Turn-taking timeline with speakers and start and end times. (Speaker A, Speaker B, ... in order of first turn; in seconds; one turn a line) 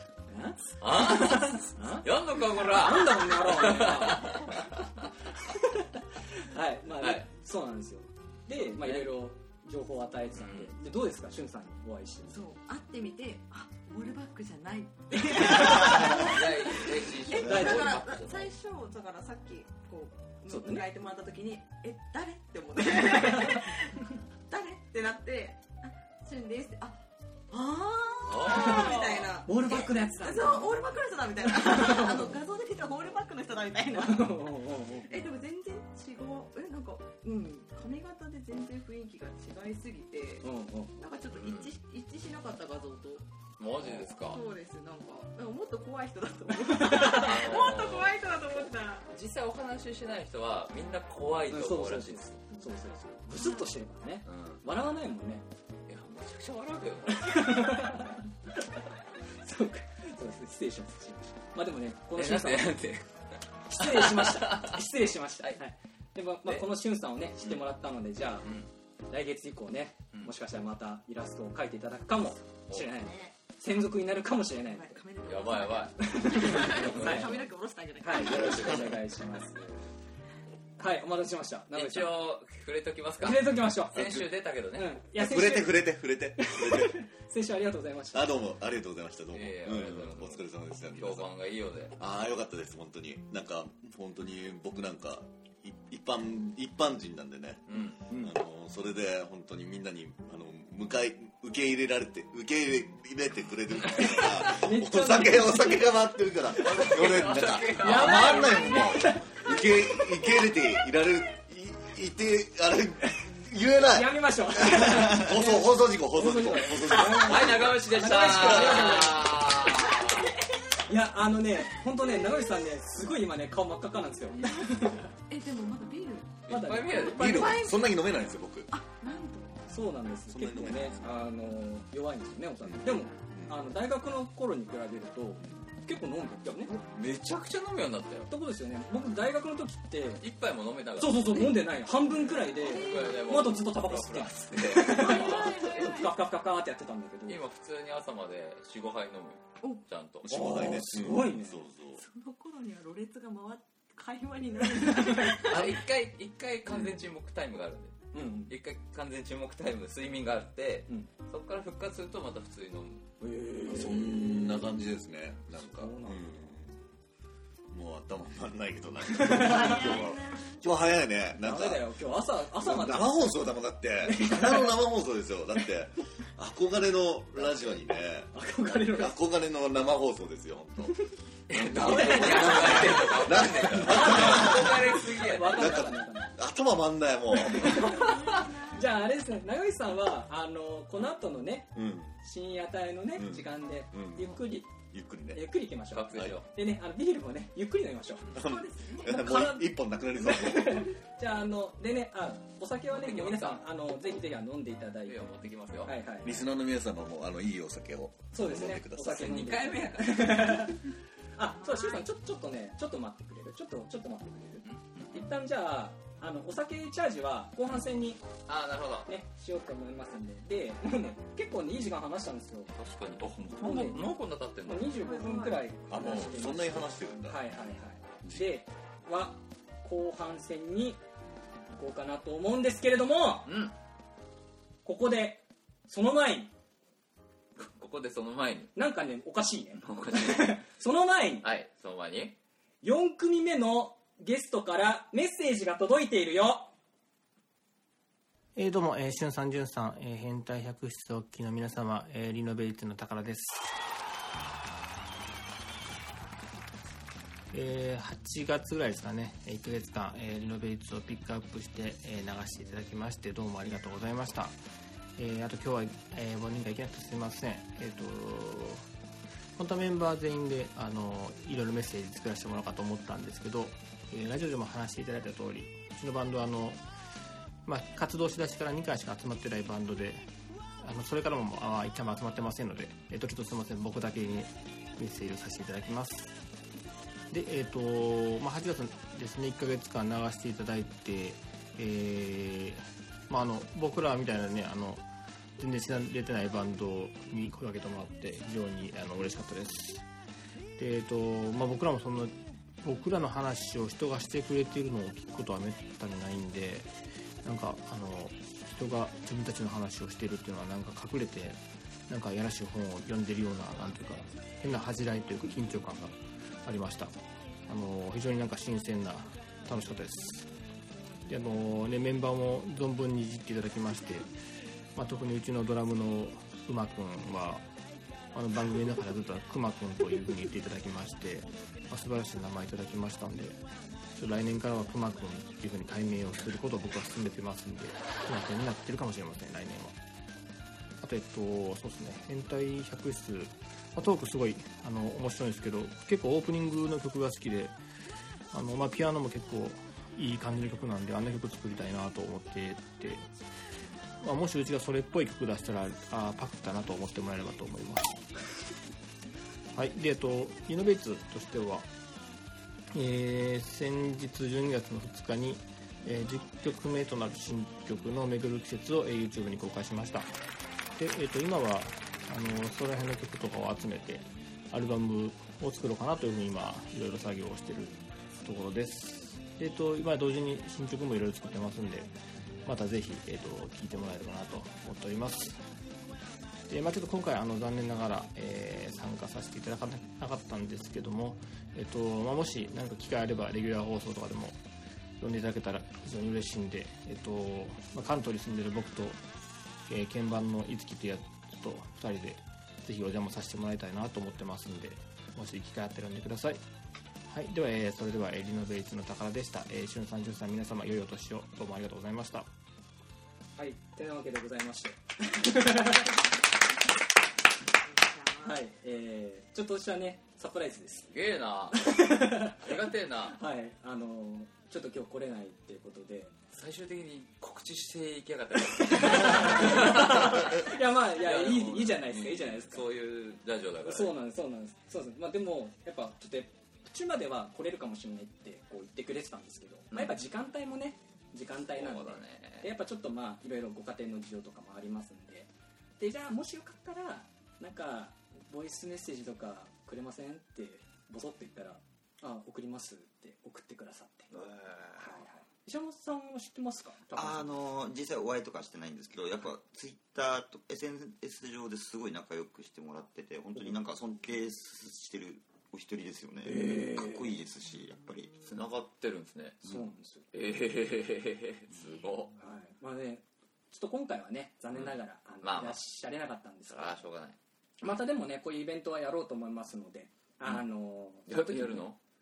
Speaker A: 0.3-4.7
Speaker B: 0.8-5.1
Speaker A: 5.4-12.5
Speaker B: 7.0-7.2
Speaker B: 8.6-9.1
Speaker B: 10.3-10.7
Speaker C: 12.3-43.3
Speaker B: 15.8-18.5
Speaker A: 17.4-18.0
Speaker A: 20.5-20.9
Speaker B: 28.3-29.2
Speaker A: 28.5-30.9
Speaker A: 31.6-32.4
Speaker A: 34.0-35.2
Speaker A: 40.4-41.0
Speaker B: 41.3-41.8
Speaker B: 43.6-44.4
Speaker C: 43.8-49.1
Speaker B: 47.0-48.2
Speaker B: 49.1-52.4
Speaker A: 51.5-55.5
Speaker C: 53.4-53.7
Speaker B: 54.2-54.6
Speaker B: 55.9-57.5
Speaker A: 57.1-58.9
Speaker A: 59.4-62.8
Speaker B: 62.1-63.1
Speaker A: 63.7-68.5
Speaker B: 63.8-64.8
Speaker B: 68.4-68.7
Speaker A: 69.1-75.0
Speaker C: 72.8-73.3
Speaker C: 74.6-78.9
Speaker B: 75.2-77.5
Speaker A: 76.0-77.4
Speaker A: 78.0-79.9
Speaker A: 80.8-82.2
Speaker B: 81.7-85.0
Speaker A: 83.2-88.3
Speaker D: 85.2-87.0
Speaker D: 88.1-91.3
Speaker B: 89.3-92.0
Speaker D: 92.0-117.9
Speaker B: 97.7-98.0
Speaker B: 103.9-104.3
Speaker A: 104.0-105.9
Speaker B: 106.5-108.9
Speaker A: 107.8-110.2
Speaker A: 113.8-119.4
Speaker B: 117.1-120.3
Speaker C: 119.6-120.8
Speaker A: 120.9-125.1
Speaker C: 124.4-126.4
Speaker B: 126.5-127.4
Speaker A: 126.5-127.8
Speaker D: 127.0-128.7
Speaker C: 127.3-128.0
Speaker C: 128.7-129.8
Speaker A: 129.7-136.8
Speaker D: 130.3-131.2
Speaker D: 132.6-133.8
Speaker C: 132.9-133.2
Speaker B: 136.7-138.3
Speaker A: 138.3-140.2
Speaker B: 140.2-141.6
Speaker A: 141.0-147.4
Speaker B: 142.4-146.1
Speaker C: 142.6-143.4
Speaker C: 144.9-146.1
Speaker B: 147.3-150.6
Speaker D: 150.3-152.0
Speaker A: 150.3-151.7
Speaker C: 151.9-155.7
Speaker A: 155.1-155.4
Speaker B: 155.4-163.1
Speaker A: 158.1-158.5
Speaker A: 163.2-164.6
Speaker D: 163.7-166.8
Speaker A: 165.6-166.4
Speaker D: 167.7-172.0
Speaker A: 169.1-170.0
Speaker C: 169.4-170.6
Speaker A: 171.4-173.2
Speaker D: 172.5-188.5
Speaker A: 174.0-174.8
Speaker A: 177.4-177.8
Speaker A: 178.3-179.2
Speaker B: 181.5-185.8
Speaker A: 181.7-186.4
Speaker A: 187.4-194.8
Speaker C: 187.7-189.1
Speaker D: 191.8-192.2
Speaker D: 193.1-195.4
Speaker A: 195.3-198.4
Speaker B: 195.9-196.5
Speaker D: 198.3-201.0
Speaker C: 198.3-199.2
Speaker A: 199.1-205.2
Speaker B: 202.9-203.6
Speaker B: 205.1-206.0
Speaker A: 205.8-206.4
Speaker D: 206.2-209.4
Speaker A: 208.3-218.2
Speaker B: 209.2-210.6
Speaker C: 211.6-212.1
Speaker B: 214.6-215.3
Speaker B: 218.5-219.1
Speaker A: 219.1-222.7
Speaker B: 222.7-225.1
Speaker A: 223.4-231.0
Speaker C: 225.0-225.7
Speaker D: 225.9-227.6
Speaker D: 228.2-228.5
Speaker A: 231.7-233.5
Speaker B: 233.4-233.7
Speaker A: 234.8-236.5
Speaker B: 237.6-238.7
Speaker A: 238.8-241.5
Speaker B: 239.8-240.6
Speaker B: 241.4-242.4
Speaker A: 242.8-246.7
Speaker E: 248.6-253.7
Speaker E: 257.5-264.6
Speaker E: 265.2-268.9
Speaker E: 269.6-276.8
Speaker E: 277.6-280.2
Speaker E: 280.8-286.3
Speaker E: 287.3-295.0
Speaker E: 295.6-300.1
Speaker E: 300.8-306.9
Speaker E: 307.4-317.1
Speaker E: 317.7-320.5
Speaker E: 321.3-324.3
Speaker E: 324.9-327.7
Speaker E: 328.3-333.6
Speaker E: 334.2-340.0
Speaker E: 341.0-347.8
Speaker E: 348.5-353.3
Speaker E: 354.2-358.3
Speaker E: 359.8-361.9
Speaker E: 362.9-370.3
Speaker E: 370.9-382.1
Speaker E: 382.6-385.6
Speaker E: 386.7-394.6
Speaker E: 395.2-399.2
Speaker E: 399.9-406.6
Speaker E: 407.3-412.5
Speaker A: 413.6-416.2
Speaker C: 417.9-418.6
Speaker A: 418.4-421.1
Speaker B: 421.1-423.4
Speaker A: 421.7-422.8
Speaker A: 423.3-426.3
Speaker B: 426.5-434.2
Speaker A: 428.8-432.9
Speaker A: 433.8-457.5
Speaker B: 441.7-442.7
Speaker F: 454.5-454.8
Speaker F: 457.1-468.5
Speaker B: 468.4-469.6
Speaker A: 469.6-470.2
Speaker B: 470.3-472.4
Speaker A: 472.4-477.0
Speaker B: 475.4-475.8
Speaker B: 476.7-477.4
Speaker A: 477.8-481.7
Speaker B: 481.3-482.0